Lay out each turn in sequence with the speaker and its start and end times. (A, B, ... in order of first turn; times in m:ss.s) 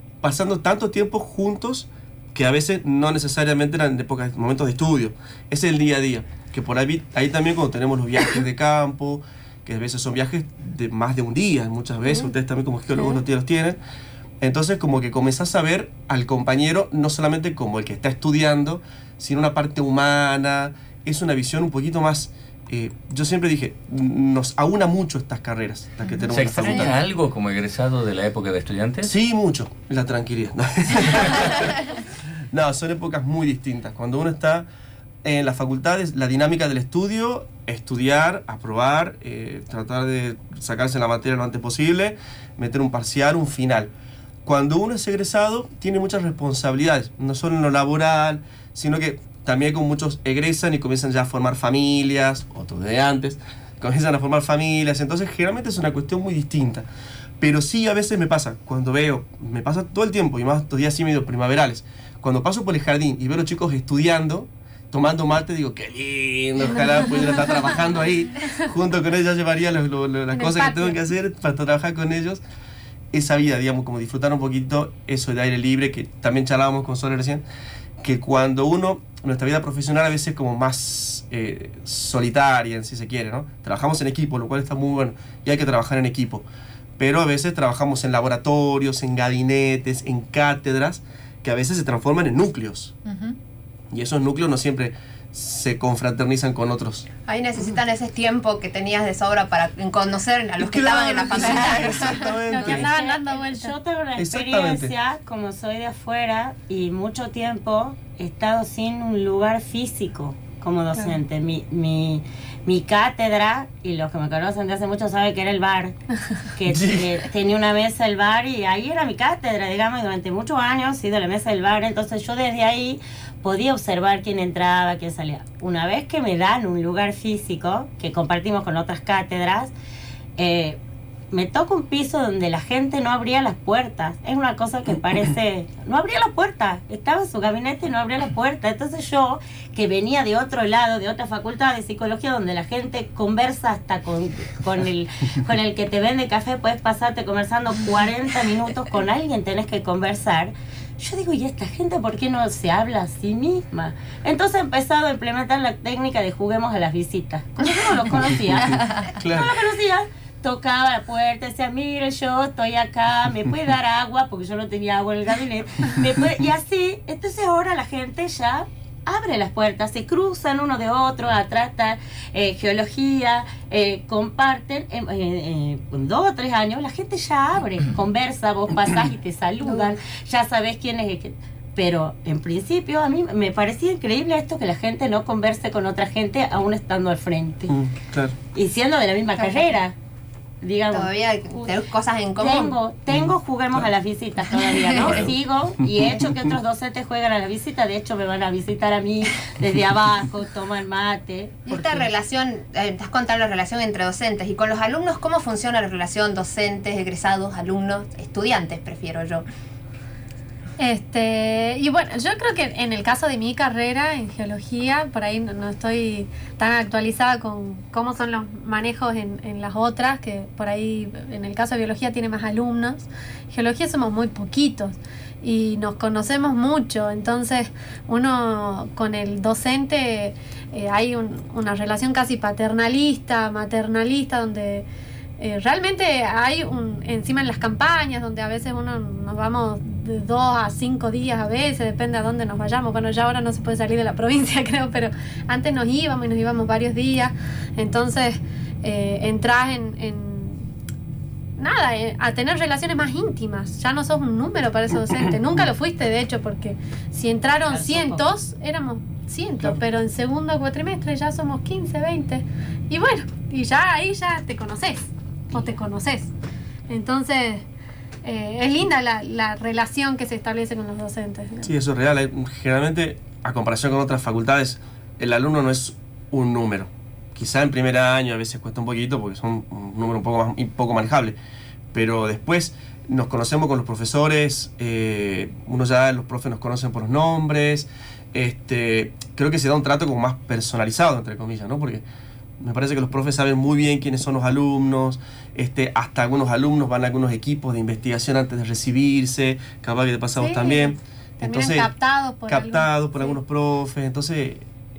0:00.2-0:13.8 A
0:12.1-0:12.3 B
0:12.9-0:13.2 B
0:14.4-0:27.0 A
0:26.3-0:29.1 C
0:29.0-0:31.9 A
0:32.5-0:34.7 A
0:35.2-0:43.9 A
0:44.4-0:56.9 A
0:57.4-1:12.4 A
1:06.7-1:07.7 B
1:10.3-1:11.0 B
1:13.1-1:17.4 A
1:18.0-1:26.5 A
1:27.0-1:32.9 A
1:33.0-1:33.4 D
1:33.9-1:37.1 A
1:37.3-1:42.2 D
1:40.6-1:42.9 A
1:41.4-1:56.0 E
1:41.4-1:43.7 B
1:44.2-1:44.9 A
1:56.6-2:09.7 E
1:56.7-1:57.2 A
2:10.4-2:10.8 E
2:11.3-3:07.8 E
2:38.6-2:38.9 D
2:39.2-2:39.6 A
2:59.7-2:59.9 B
3:07.7-3:08.4 A
3:08.5-3:10.0 E
3:09.4-3:09.8 D
3:10.6-3:11.8 E
3:10.9-3:12.8 D
3:12.4-3:22.1 E
3:14.9-3:15.1 D
3:15.0-3:16.1 A
3:21.7-3:29.4 D
3:30.8-3:54.9 B
3:55.4-4:10.7 B
4:11.6-4:26.3 B
4:17.7-4:18.3 E
4:26.9-4:27.6 B
4:28.2-4:31.7 B
4:31.6-4:41.4 A
4:41.9-4:52.0 A
4:52.6-5:01.9 A
5:00.4-5:03.4 B
5:02.4-5:04.7 A